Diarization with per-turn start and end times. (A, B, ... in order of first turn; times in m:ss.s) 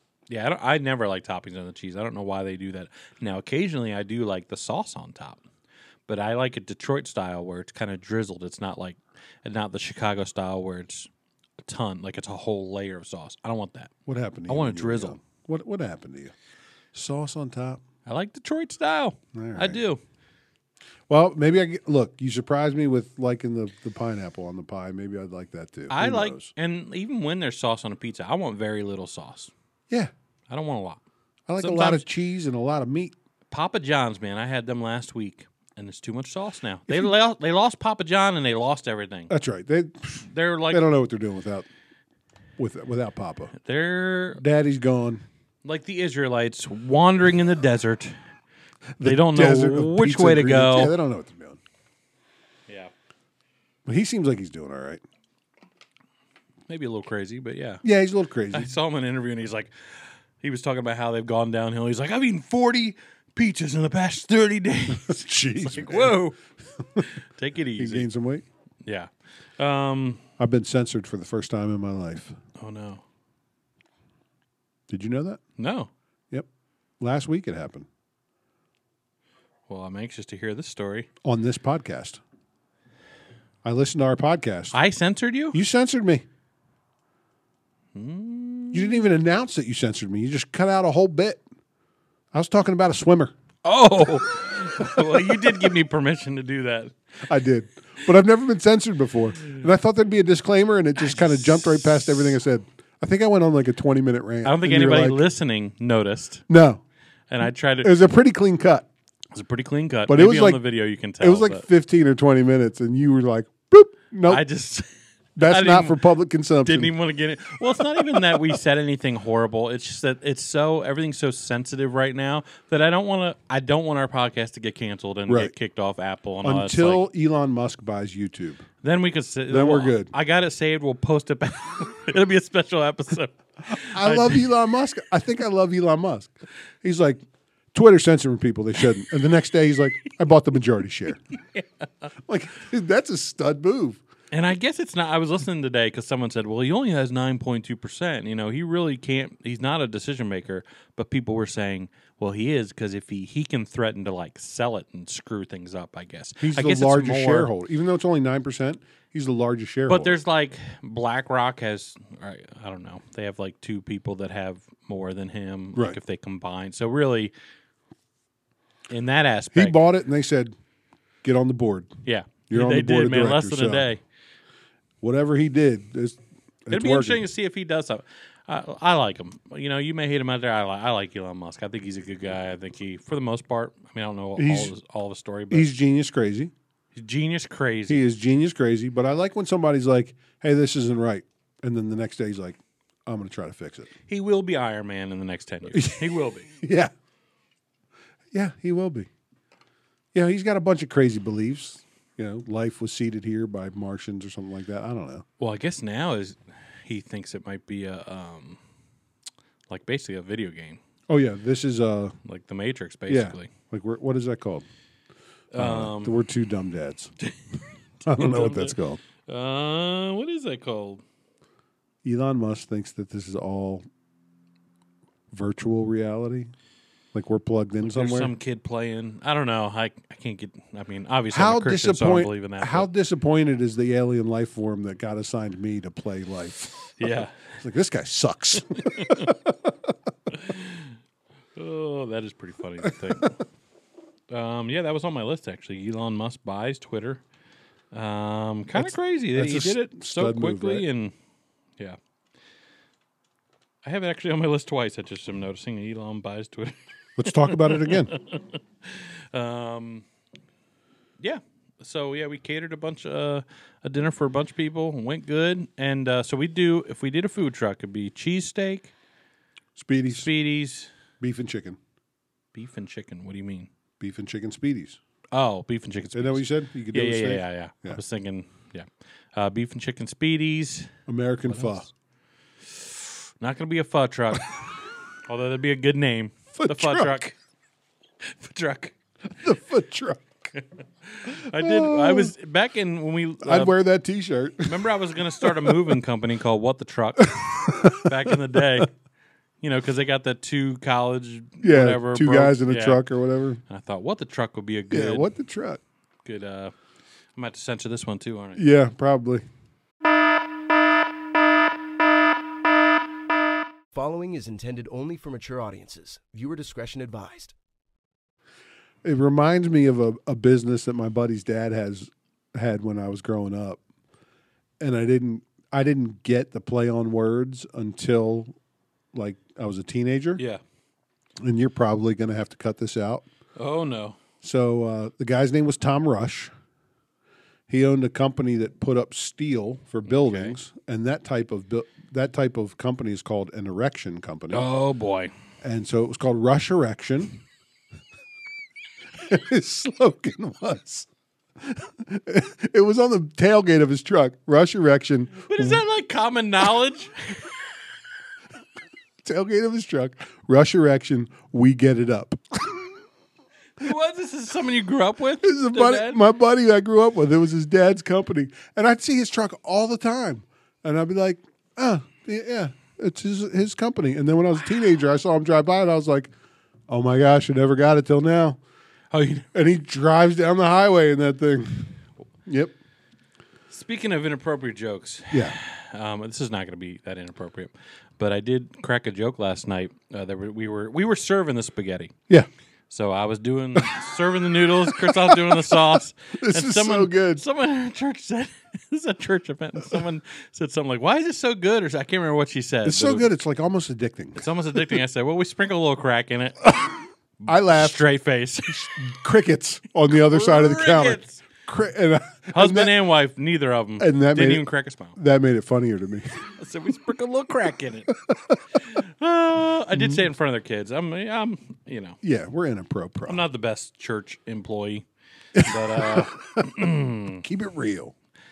0:00.3-0:05.4 A
0:06.1-0:11.1 A
0:11.6-0:13.9 A
0:14.1-0:16.3 B
0:14.5-0:15.2 A
0:16.9-0:17.8 B
0:18.1-0:20.0 A
0:19.3-0:19.8 B
0:21.1-0:26.5 B
0:25.9-0:29.5 A
0:30.5-0:31.0 A
0:31.5-0:33.2 B
0:31.6-0:32.1 A
0:33.5-0:39.3 A
0:39.3-0:41.7 B
0:40.3-0:40.8 A
0:42.6-0:43.5 B
0:43.6-0:44.4 A
0:44.4-0:45.2 B
0:45.6-0:48.2 A
0:49.0-0:51.6 B
0:49.0-0:51.0 A
0:53.9-0:55.0 B
0:56.7-0:57.8 A
0:57.8-0:58.7 B
0:58.5-1:06.4 A
1:04.9-1:06.2 B
1:07.0-1:08.1 A
1:07.8-1:08.4 B
1:08.8-1:10.2 A
1:10.4-1:12.4 B
1:12.6-1:13.0 A
1:14.9-1:15.4 B
1:15.6-1:15.9 A
1:17.0-1:17.9 B
1:19.7-1:21.1 A
1:21.2-1:22.2 B
1:23.6-1:24.8 B
1:24.7-1:25.6 A
1:25.5-1:26.2 B
1:28.0-1:29.1 A
1:28.7-1:31.4 B
1:32.3-1:33.3 B
1:33.6-1:36.9 A
1:34.8-1:35.7 B
1:37.2-1:45.2 B
1:41.0-1:42.4 A
1:44.4-1:46.4 A
1:46.5-1:46.8 B
1:47.3-1:47.9 A
1:47.8-1:48.9 B
1:49.3-1:51.6 A
1:50.1-1:54.4 B
1:54.3-1:54.9 A
1:55.4-1:56.9 B
1:55.4-1:56.0 A
1:56.6-2:07.1 A
1:58.0-1:58.6 B
2:05.3-2:05.6 B
2:06.4-2:08.7 B
2:08.8-2:14.5 A
2:09.5-2:10.1 B
2:13.7-2:16.3 B
2:16.8-2:17.2 B
2:17.7-2:21.2 B
2:22.3-2:24.0 B
2:24.3-2:37.5 A
2:36.4-2:40.2 B
2:39.9-2:47.3 A
2:48.9-2:49.8 A
2:49.5-2:50.6 B
2:51.2-2:51.9 B
2:52.0-2:54.0 A
2:52.5-2:53.9 B
2:55.0-2:57.2 B
2:56.7-3:05.7 A
3:04.4-3:04.7 B
3:05.5-3:06.5 B
3:07.0-3:08.0 A
3:07.9-3:13.9 B
3:14.1-3:16.5 A
3:15.7-3:16.9 B
3:18.3-3:19.1 B
3:20.1-3:25.2 B
3:25.4-3:28.6 A
3:29.7-3:30.8 A
3:31.1-3:32.2 B
3:32.3-3:33.5 A
3:33.1-3:34.7 B
3:35.5-3:36.2 A
3:35.6-3:37.1 B
3:38.0-3:41.0 A
3:38.1-3:39.0 B
3:42.0-3:43.9 B
3:45.3-3:46.5 B
3:47.1-3:48.3 B
3:47.8-3:52.9 A
3:51.3-3:59.9 B
3:57.0-3:57.5 A
3:58.8-3:59.3 A
4:00.3-4:00.9 A
4:01.6-4:03.4 A
4:04.3-4:07.2 A
4:07.9-4:11.1 A
4:08.7-4:10.8 B
4:13.8-4:20.0 A
4:17.2-4:18.1 B
4:21.2-4:28.9 A
4:29.8-4:30.3 B
4:30.1-4:30.9 A
4:31.2-4:31.8 B
4:32.6-4:33.7 A
4:34.0-4:35.0 B
4:35.3-4:40.9 A
4:36.1-4:38.0 B
4:41.1-4:41.9 B
4:41.5-4:41.8 A
4:42.8-4:44.7 A
4:45.3-4:47.4 A
4:46.6-4:47.2 B
4:48.2-4:48.9 A
4:49.3-4:50.5 B
4:50.6-4:53.7 A
4:51.5-4:52.3 B
4:53.4-4:56.0 B
4:54.6-4:58.9 A
4:57.2-4:58.9 B
4:59.6-5:03.0 A
5:01.6-5:03.6 B
5:03.7-5:05.3 A
5:04.9-5:05.8 B
5:06.2-5:06.7 A
5:07.4-5:08.7 A
5:08.6-5:09.4 B
5:13.9-5:17.6 C
5:19.0-5:23.8 B
5:24.8-5:28.6 B
5:29.1-5:30.4 B
5:31.4-5:33.2 B
5:33.6-5:34.2 A
5:34.4-5:36.5 B
5:37.7-5:44.7 B
5:40.1-5:40.6 A
5:44.5-5:45.3 A
5:45.6-5:47.4 B
5:49.2-5:51.1 B
5:51.6-5:55.8 B
5:55.5-5:57.5 A
5:59.2-6:03.0 B
6:03.8-6:06.2 A
6:05.4-6:16.3 B
6:16.9-6:18.6 B
6:19.1-6:19.5 A
6:19.5-6:21.9 B
6:22.5-6:22.8 B
6:23.7-6:32.1 A
6:25.3-6:25.6 B
6:32.9-6:43.3 A
6:33.8-6:34.0 B
6:34.8-6:37.4 B
6:42.8-6:45.0 B
6:44.4-6:46.7 A
6:46.7-6:46.9 B
6:47.4-6:49.0 A
6:47.5-6:48.0 B
6:48.7-6:52.9 B
6:50.1-6:51.4 A
6:52.5-6:55.2 A
6:54.0-6:56.5 B
6:56.6-6:58.1 A
6:58.3-6:58.6 B
6:58.8-7:02.2 A
6:59.9-7:00.2 B
7:02.2-7:03.4 B
7:03.3-7:07.4 A
7:05.6-7:08.1 B